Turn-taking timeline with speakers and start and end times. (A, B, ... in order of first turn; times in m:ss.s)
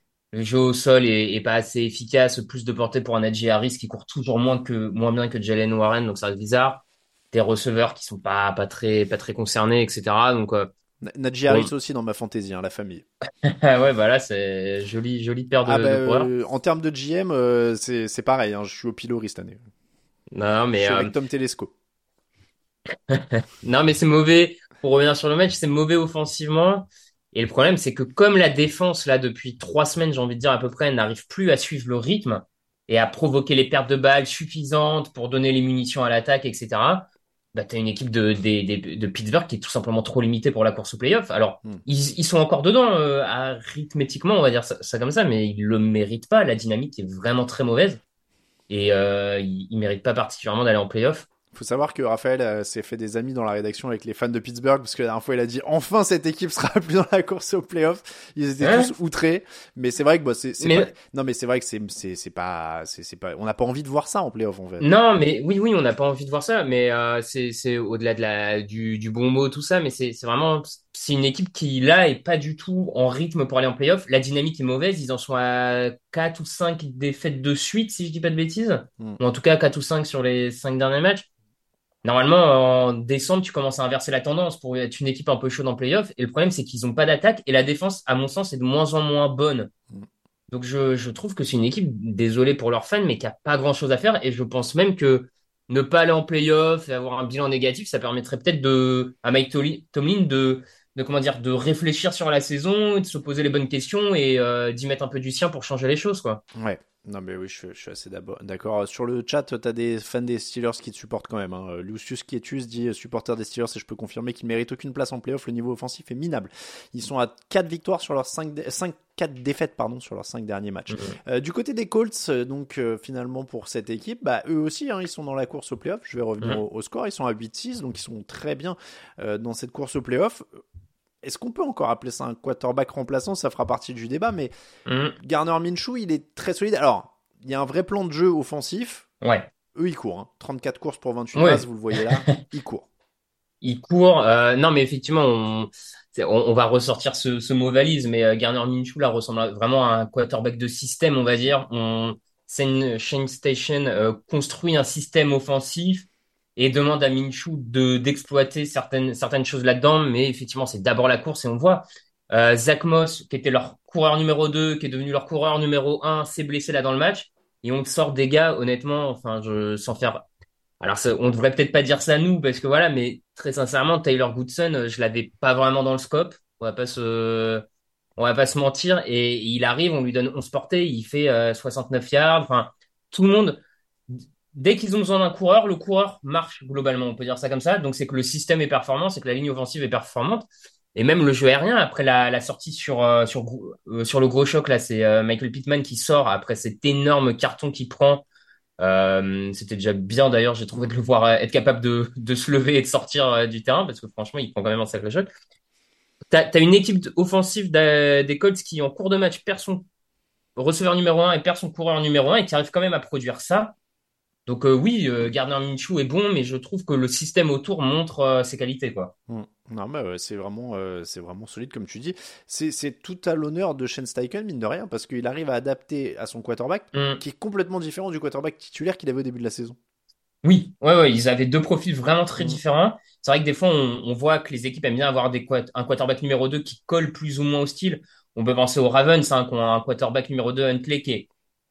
0:00.3-0:10.7 A
0:11.0-0:13.0 B
0:13.4-0:16.3 A
0:15.6-0:19.6 B
0:20.3-0:21.1 A
0:20.7-0:21.7 B
0:23.1-0:48.0 A
0:48.7-0:51.3 A
0:51.5-1:04.9 B
0:58.6-0:58.9 A
1:00.6-1:00.9 A
1:04.8-1:21.3 A
1:22.0-1:29.7 A
1:30.5-1:46.4 A
1:46.6-2:10.5 B
2:00.9-2:01.2 A
2:11.2-2:14.5 B
2:14.9-2:15.2 A
2:15.2-2:19.1 B
2:19.2-2:19.5 A
2:19.8-2:22.9 B
2:21.4-2:22.4 A
2:23.6-2:50.3 A
2:50.8-2:57.6 A
2:58.2-3:18.2 A
3:18.8-3:25.3 A
3:26.3-3:29.8 A
3:30.6-3:33.7 A
3:34.5-3:39.1 A
3:39.3-3:49.8 B
3:46.9-3:47.2 A
3:50.4-4:01.3 A